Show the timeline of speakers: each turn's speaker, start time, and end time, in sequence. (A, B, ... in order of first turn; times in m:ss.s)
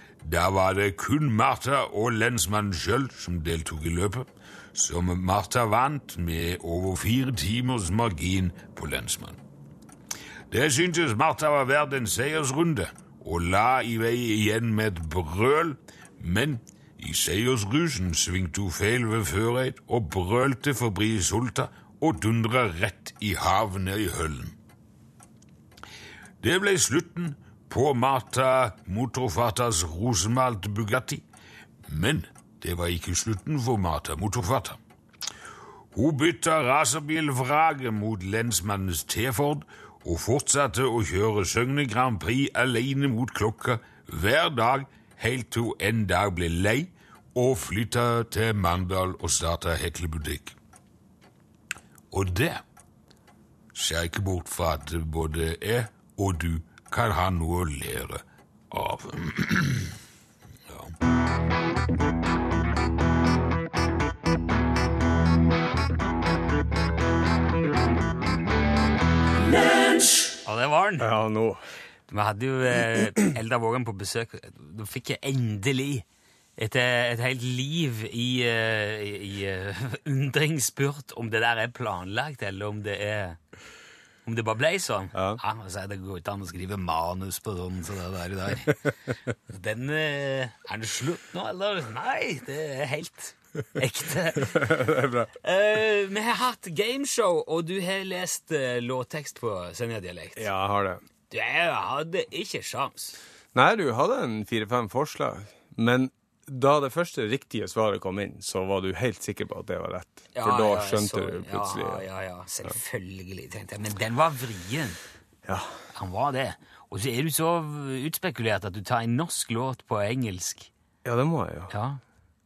0:00.2-0:09.4 A
0:10.5-0:24.6 A
0:26.4-0:31.2 A
0:31.9-0:34.8 A
0:35.9-0:50.6 A
0:52.1-0:52.6 A
0:53.8-1:00.0 A
1:00.7-1:00.9 A
1:10.4-1:11.1 B
1:11.0-1:11.6 C
1:12.1-1:16.0 B
1:16.6-1:23.4 B
1:24.3-1:28.8 B
1:25.1-1:25.4 C
1:29.5-1:34.7 B
1:34.4-1:35.3 C
1:35.4-1:40.5 B
1:40.4-1:41.0 C
1:41.3-1:43.2 B
1:43.5-1:52.0 C
1:50.4-1:55.0 B
1:55.9-2:00.7 B
2:01.0-2:01.7 C
2:01.7-2:02.0 B